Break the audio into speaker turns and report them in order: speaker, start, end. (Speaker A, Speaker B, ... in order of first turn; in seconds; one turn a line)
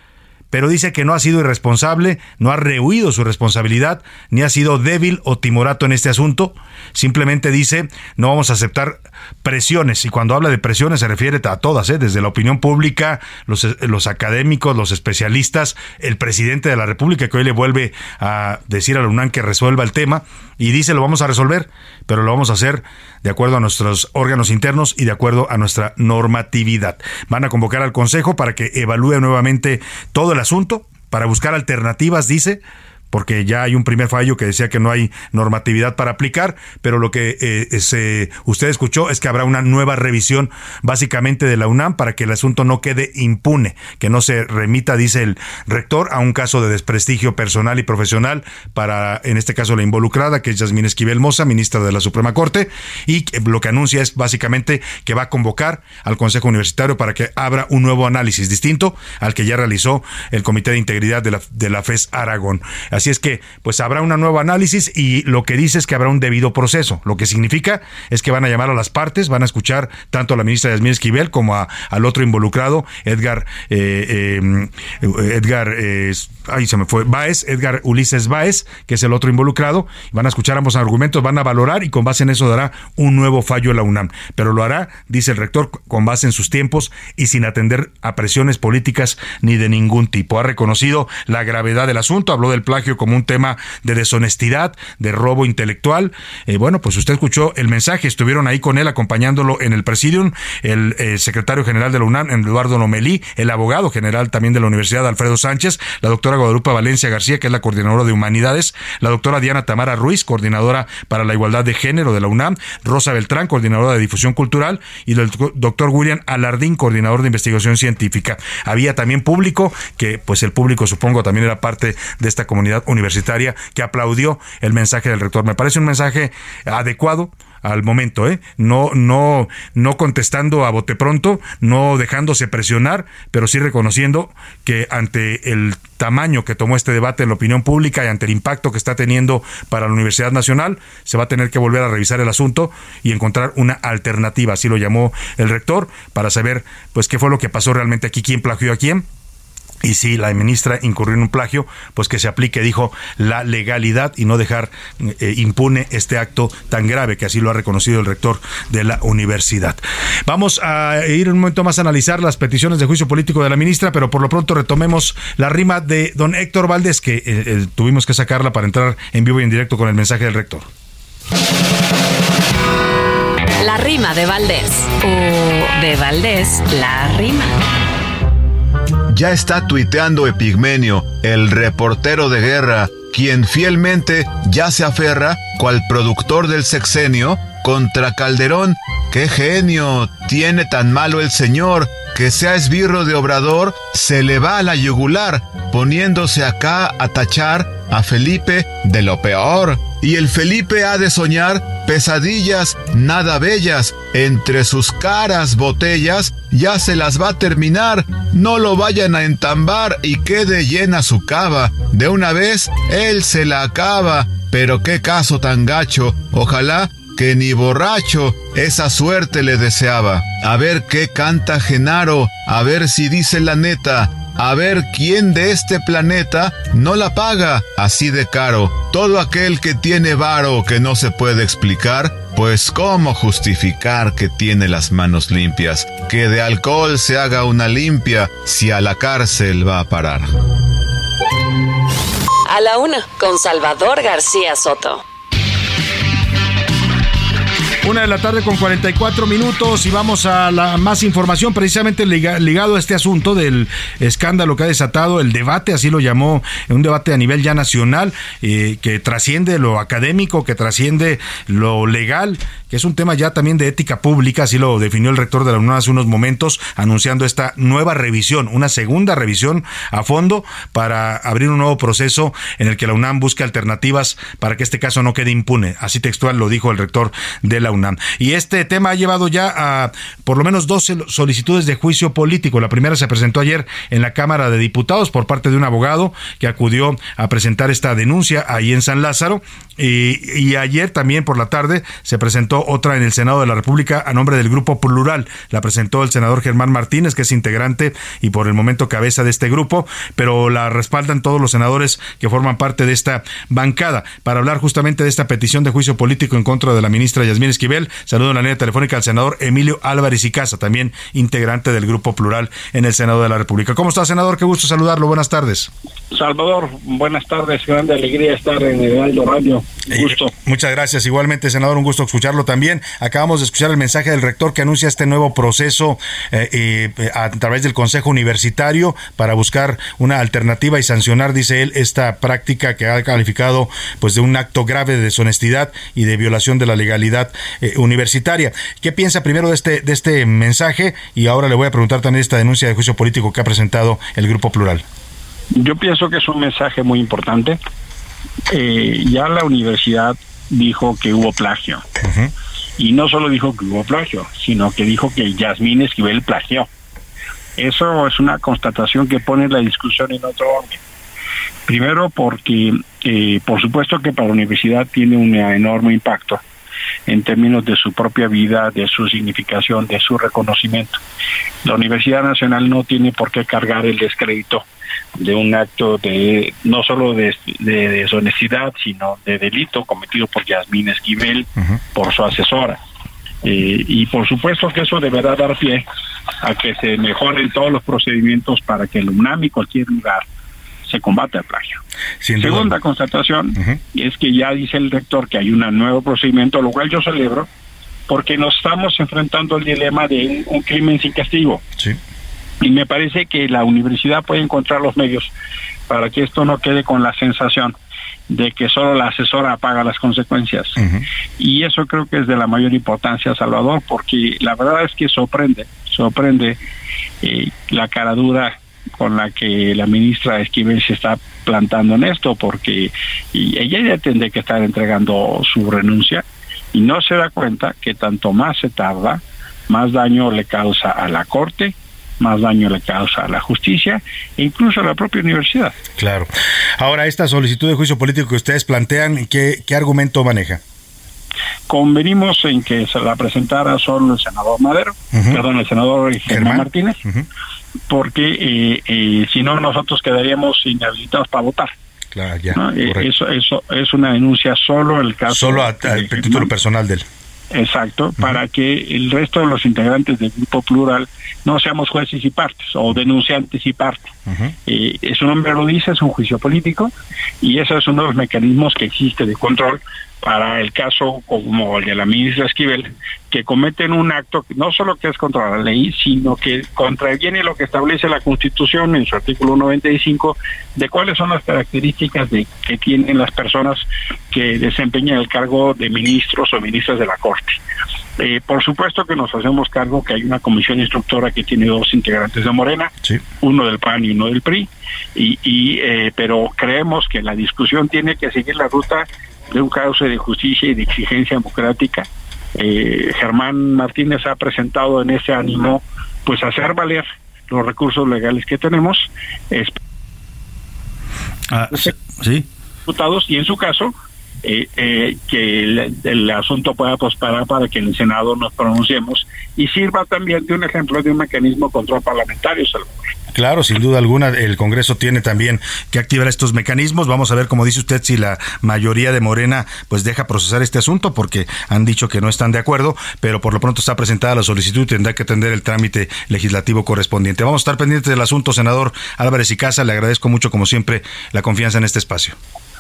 Speaker A: 0.5-149.1
Speaker A: 149.8-170.7
Speaker B: 173.6-177.5
Speaker C: 179.1-240.3
Speaker B: 242.5-245.0
Speaker A: 247.8-315.7
Speaker D: 316.1-320.3
Speaker A: 319.9-344.8
Speaker D: 345.6-347.6
Speaker D: 348.5-351.8
Speaker A: 352.0-352.3
Speaker D: 352.8-356.7
Speaker D: 357.6-360.8
Speaker D: 361.7-366.4
Speaker D: 367.1-371.0
Speaker D: 371.6-374.6
Speaker D: 375.2-382.8
Speaker D: 383.4-385.8
Speaker D: 386.4-390.2
Speaker D: 390.9-391.8
Speaker A: 392.2-392.7
Speaker D: 392.4-397.5
Speaker D: 398.1-401.6
Speaker D: 402.6-405.3
Speaker D: 405.9-407.7
Speaker D: 408.3-410.8
Speaker A: 410.8-411.0
Speaker D: 411.4-416.6
Speaker D: 417.2-435.8
Speaker A: 436.0-440.6
Speaker D: 441.7-447.0
Speaker A: 445.1-445.4
Speaker A: 446.3-447.3
Speaker D: 447.9-451.7
Speaker A: 452.1-453.1
Speaker D: 452.6-456.5
Speaker A: 455.3-457.1
Speaker D: 457.5-464.1
Speaker A: 464.3-464.5
Speaker D: 464.7-466.9
Speaker D: 467.4-487.6
Speaker D: 488.2-492.9
Speaker D: 493.4-509.8
Speaker A: 511.5-512.5
Speaker D: 512.9-513.9
Speaker D: 514.4-522.9
Speaker A: 523.3-542.4